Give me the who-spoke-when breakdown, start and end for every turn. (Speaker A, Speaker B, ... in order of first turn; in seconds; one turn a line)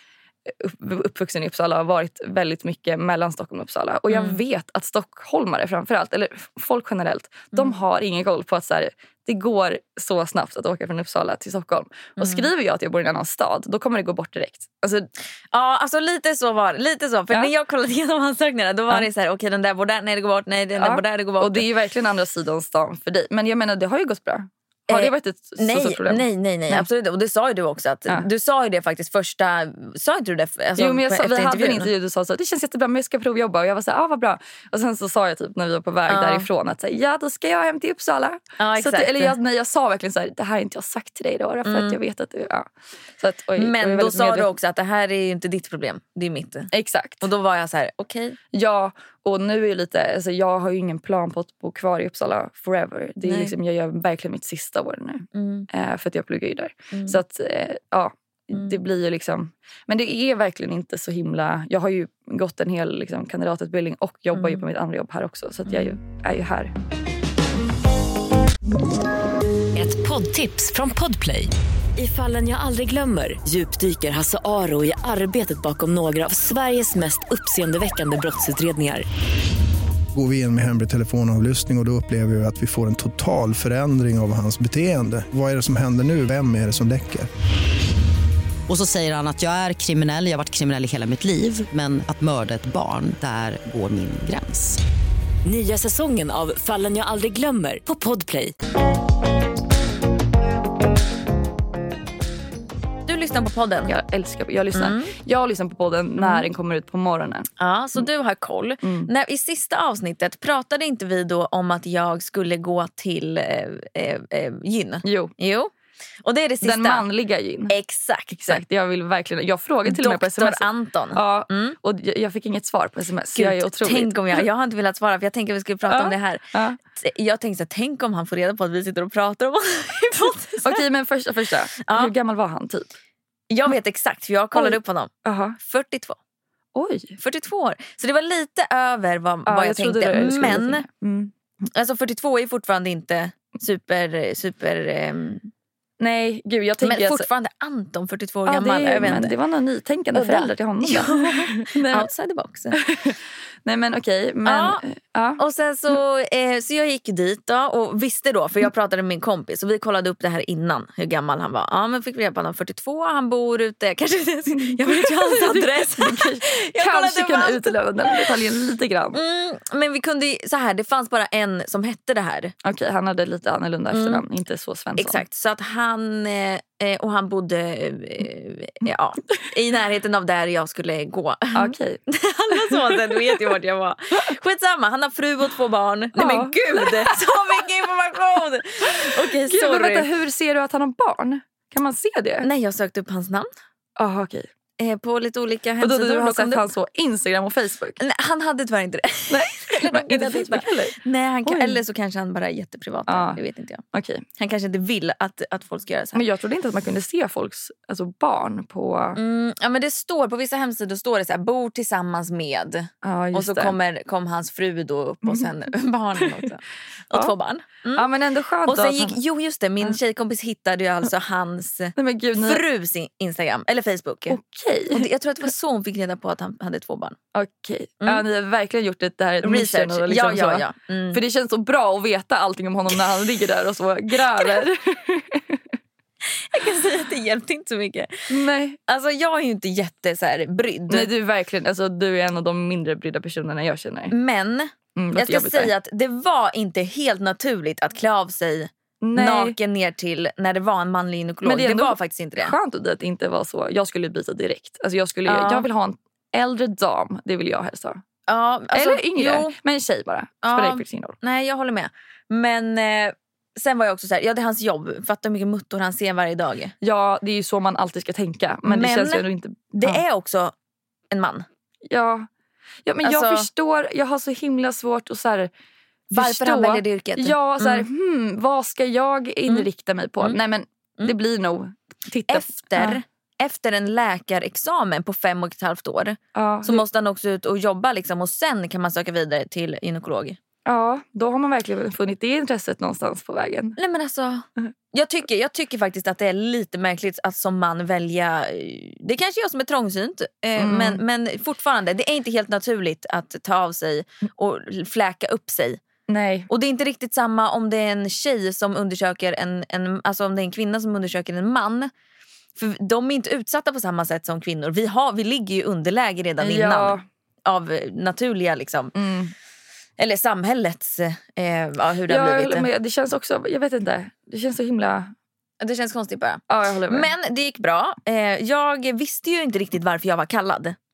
Speaker A: 0.5-15.1
Speaker B: 4.1-4.4
Speaker B: 12.2-12.5
Speaker B: 15.5-21.6
Speaker A: 20.8-26.9
Speaker B: 24.9-31.9
Speaker A: 30.8-44.5
Speaker B: 36.1-36.5
Speaker B: 38.6-39.3
Speaker B: 41.6-42.0
Speaker B: 43.6-46.7
Speaker A: 46.7-47.2
Speaker B: 47.2-48.4
Speaker A: 48.5-66.7
Speaker B: 53.2-53.5
Speaker B: 55.3-55.7
Speaker B: 56.9-57.2
Speaker B: 64.3-64.6
Speaker B: 65.7-66.0
Speaker C: 69.7-79.0
Speaker D: 80.1-87.3
Speaker E: 88.7-94.8
Speaker C: 95.4-98.5
Speaker B: 103.1-103.9
Speaker A: 103.9-108.0
Speaker B: 104.7-105.1
Speaker B: 106.2-106.5
Speaker B: 107.6-115.7
Speaker A: 108.8-109.1
Speaker A: 115.0-115.3
Speaker B: 116.2-117.0
Speaker A: 116.6-117.7
Speaker B: 117.7-118.6
Speaker A: 118.3-124.4
Speaker B: 119.8-121.8
Speaker B: 123.3-130.8
Speaker A: 125.9-126.8
Speaker A: 130.6-132.9
Speaker B: 131.8-132.1
Speaker B: 133.5-136.2
Speaker A: 134.5-135.6
Speaker A: 136.7-137.2
Speaker B: 137.2-140.8
Speaker A: 139.4-141.3
Speaker B: 141.7-145.5
Speaker A: 146.0-147.3
Speaker B: 146.8-149.3
Speaker A: 148.4-152.1
Speaker B: 150.1-152.8
Speaker A: 152.7-155.4
Speaker B: 154.4-154.8
Speaker B: 155.4-168.3
Speaker A: 164.6-169.2
Speaker B: 169.1-172.5
Speaker A: 172.6-175.2
Speaker B: 173.9-174.2
Speaker B: 175.0-190.1
Speaker A: 181.5-182.0
Speaker A: 182.5-183.5
Speaker A: 186.2-187.6
Speaker A: 188.9-192.5
Speaker B: 192.4-193.5
Speaker A: 194.0-194.5
Speaker B: 194.8-196.6
Speaker A: 195.8-198.0
Speaker B: 198.0-203.8
Speaker A: 199.3-201.8
Speaker A: 203.1-203.4
Speaker A: 203.9-204.2
Speaker B: 204.4-206.2
Speaker A: 206.1-209.2
Speaker B: 209.2-218.1
Speaker A: 213.0-213.7
Speaker A: 216.2-216.4
Speaker A: 217.9-219.2
Speaker B: 218.7-224.4
Speaker A: 221.9-222.6
Speaker A: 224.3-225.1
Speaker B: 224.9-227.2
Speaker A: 227.3-235.6
Speaker B: 229.4-231.2
Speaker B: 236.3-238.3
Speaker A: 238.3-238.8
Speaker B: 238.9-241.1
Speaker A: 240.9-244.1
Speaker B: 244.1-252.5
Speaker A: 244.9-245.7
Speaker A: 249.0-249.6
Speaker A: 251.4-258.0
Speaker B: 255.3-255.7
Speaker B: 258.3-259.6
Speaker A: 258.7-261.1
Speaker B: 260.4-266.7
Speaker A: 266.8-270.0
Speaker B: 268.6-270.5
Speaker B: 271.1-271.4
Speaker A: 271.9-272.3
Speaker A: 272.8-275.5
Speaker B: 273.0-273.5
Speaker B: 276.1-277.9
Speaker A: 276.1-283.0
Speaker B: 282.3-290.4
Speaker A: 286.3-286.8
Speaker A: 290.6-293.8
Speaker B: 293.8-305.8
Speaker A: 300.6-301.0
Speaker A: 306.1-306.5
Speaker B: 306.5-311.9
Speaker B: 312.6-318.9
Speaker A: 316.4-317.0
Speaker A: 318.9-319.3
Speaker B: 320.0-322.7
Speaker A: 322.1-325.1
Speaker B: 325.6-330.8
Speaker A: 326.5-327.1